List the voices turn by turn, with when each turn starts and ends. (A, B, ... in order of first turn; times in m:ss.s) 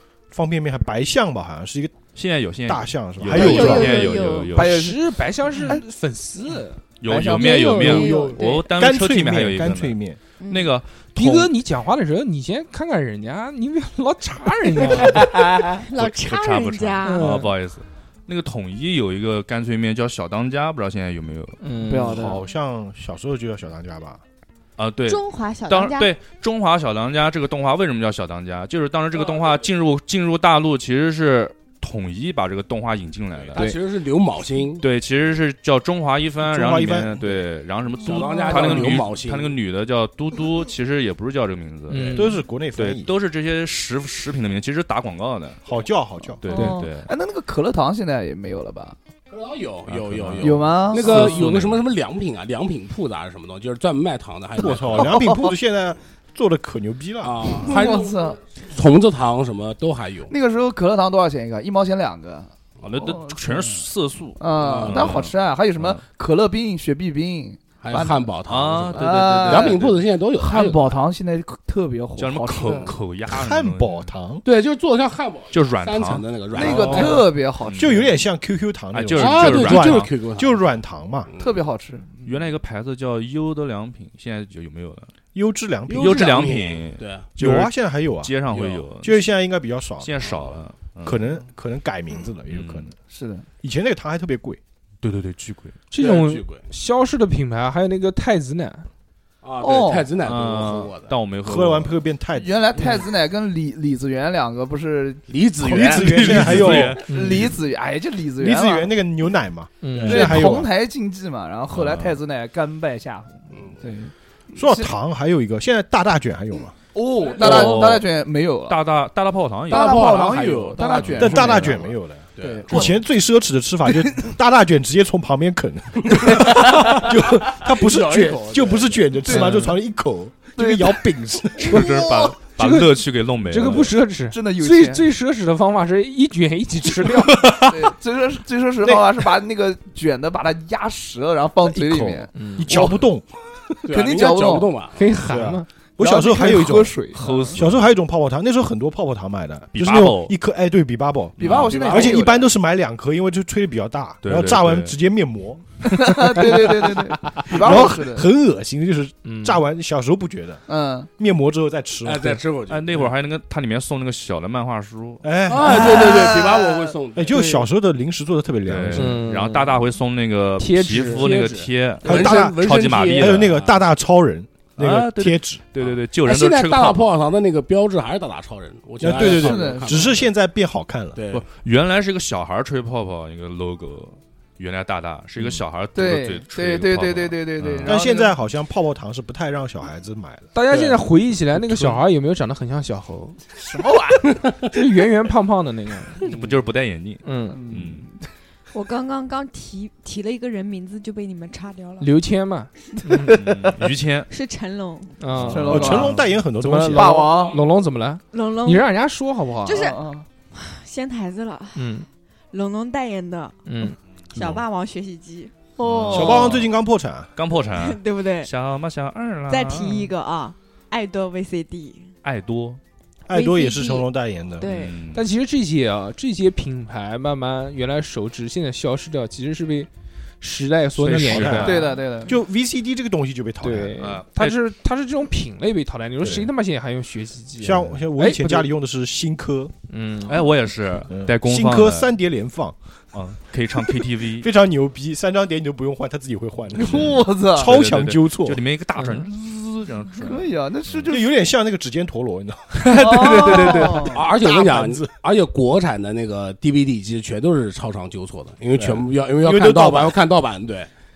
0:00.3-0:02.0 A
0:02.2-0:04.9 B
0:02.6-0:03.9 A
0:03.3-0:04.6 C
0:03.3-0:05.0 D
0:04.5-0:06.8 E
0:07.0-0:10.0 B
0:07.1-0:08.4 D
0:07.2-0:08.7 C
0:07.9-0:10.2 A
0:10.4-0:10.7 C
0:10.5-0:11.5 B
0:11.2-0:15.4 E
0:14.8-0:17.4 C
0:15.8-0:21.6 B
0:17.0-0:17.5 E
0:21.6-0:22.2 E
0:21.9-0:22.4 D
0:22.1-0:24.2 A
0:24.8-0:33.6 B
0:25.1-0:26.1 C
0:29.2-0:29.7 F
0:33.4-0:34.8 F
0:33.6-0:33.8 E
0:34.8-0:45.6 B
0:36.4-0:37.4 A
0:38.0-0:39.0 D
0:38.0-0:39.6 F
0:38.6-0:38.8 E
0:41.9-0:42.4 E
0:42.1-0:43.1 A
0:45.6-0:46.4 A
0:46.4-0:47.1 B
0:46.5-0:49.0 D
0:46.5-0:46.8 E
0:49.3-0:55.2 F
0:49.9-0:51.8 B
0:50.4-0:51.3 D
0:54.6-0:57.6 A
0:55.0-0:55.5 D
0:57.2-1:00.3 F
0:57.6-0:58.4 D
1:00.3-1:03.8 D
1:02.8-1:06.0 B
1:04.4-1:08.3 D
1:04.6-1:05.2 F
1:07.8-1:11.0 F
1:08.5-1:10.0 B
1:08.9-1:09.8 D
1:10.3-1:13.0 D
1:12.2-1:14.1 B
1:12.6-1:12.9 F
1:13.3-1:14.4 A
1:14.4-1:17.2 F
1:15.5-1:18.0 B
1:16.5-1:18.1 D
1:16.7-1:21.3 A
1:18.9-1:20.1 B
1:19.1-1:20.6 F
1:21.3-1:21.5 F
1:21.4-1:22.1 D
1:22.2-1:25.1 B
1:25.3-1:26.5 A
1:25.9-1:27.3 F
1:26.0-1:29.2 B
1:27.4-1:28.4 A
1:28.5-1:28.9 F
1:29.0-1:32.9 A
1:30.0-1:31.2 B
1:32.5-1:32.9 B
1:33.1-1:33.5 D
1:33.6-1:34.6 A
1:35.0-1:35.8 B
1:35.9-1:38.9 E
1:36.0-1:36.6 F
1:39.4-1:41.2 F
1:39.6-1:40.1 D
1:40.2-1:42.0 B
1:41.4-1:42.8 A
1:42.4-1:46.1 D
1:45.3-1:47.0 F
1:45.6-1:47.0 A
1:46.1-1:47.5 B
1:47.0-1:48.9 D
1:47.1-1:47.5 E
1:48.4-1:50.7 A
1:49.8-1:50.3 E
1:49.9-1:50.5 F
1:50.1-1:54.9 D
1:51.7-1:52.2 B
1:54.6-1:56.8 A
1:56.9-1:58.8 D
1:57.4-1:58.0 F
1:57.4-1:58.0 B
1:58.7-2:00.0 B
1:59.7-2:03.0 D
1:59.7-2:01.8 F
2:00.8-2:01.1 E
2:01.2-2:11.9 A
2:02.4-2:02.8 F
2:06.2-2:09.1 F
2:09.2-2:09.6 D
2:09.3-2:09.8 E
2:10.6-2:12.4 D
2:11.6-2:14.0 B
2:12.6-2:17.5 E
2:14.3-2:15.1 D
2:17.4-2:17.7 B
2:17.7-2:23.0 D
2:21.6-2:23.8 A
2:22.4-2:22.7 E
2:23.9-2:25.2 F
2:23.9-2:24.7 D
2:25.0-2:25.7 E
2:25.3-2:27.0 A
2:26.0-2:27.6 D
2:27.1-2:27.9 B
2:27.6-2:36.6 A
2:29.7-2:30.3 B
2:31.4-2:32.5 D
2:31.4-2:32.2 F
2:34.2-2:35.0 B
2:35.9-2:38.3 D
2:36.4-2:36.8 E
2:37.5-2:40.6 A
2:39.2-2:39.7 E
2:40.7-2:41.1 D
2:41.2-2:42.4 A
2:42.0-2:43.1 F
2:42.7-2:45.2 B
2:45.2-2:46.4 A
2:45.5-2:47.4 F
2:45.6-2:47.0 D
2:47.1-2:49.2 A
2:47.4-2:47.6 E
2:48.7-2:53.6 B
2:49.0-2:49.8 E
2:50.6-2:51.7 E
2:51.2-2:53.8 F
2:52.0-2:55.6 A
2:54.8-2:57.1 B
2:55.8-3:00.3 F
2:59.0-3:01.2 A
2:59.0-3:00.1 D
3:01.2-3:01.5 F
3:01.3-3:08.0 B
3:06.0-3:08.3 D
3:07.8-3:10.5 A
3:10.6-3:13.4 E
3:10.7-3:11.0 F
3:13.5-3:14.4 D
3:14.6-3:16.2 E
3:16.2-3:18.1 B
3:17.2-3:17.6 E
3:17.5-3:18.2 D
3:18.7-3:22.1 C
3:22.0-3:23.3 E
3:23.2-3:23.8 D
3:23.3-3:24.3 B
3:24.3-3:25.2 C
3:25.2-3:25.9 E
3:25.3-3:26.4 B
3:25.4-3:27.6 D
3:25.5-3:27.3 A
3:26.6-3:29.8 E
3:28.3-3:28.9 C
3:29.6-3:30.0 C
3:29.7-3:30.3 D
3:30.5-3:32.0 C
3:31.8-3:32.1 E
3:32.5-3:33.6 C
3:33.7-3:34.0 E
3:34.3-3:35.5 C
3:35.8-3:36.6 D
3:35.8-3:36.7 B
3:36.1-3:37.3 A
3:37.4-3:40.1 B
3:37.7-3:38.5 C
3:39.5-3:42.1 C
3:42.2-3:42.8 B
3:43.3-3:44.7 A
3:43.3-3:44.1 C
3:44.6-3:45.0 C
3:44.6-3:45.2 B
3:45.1-3:49.9 E
3:50.4-3:51.9 E
3:51.0-3:51.9 B
3:51.1-3:54.1 A
3:51.6-3:52.4 D
3:53.6-3:58.7 E
3:54.0-3:54.6 B
3:56.2-3:56.5 A
3:57.6-3:59.7 A
3:59.9-4:00.4 E
4:00.3-4:02.1 B
4:01.1-4:02.8 A
4:03.1-4:04.5 B
4:04.4-4:08.6 A
4:06.8-4:07.7 D
4:06.8-4:11.1 B
4:09.0-4:09.3 E
4:10.2-4:11.4 D
4:11.1-4:15.2 A
4:12.8-4:14.2 B
4:12.9-4:14.2 D
4:14.0-4:20.9 F
4:19.4-4:20.2 A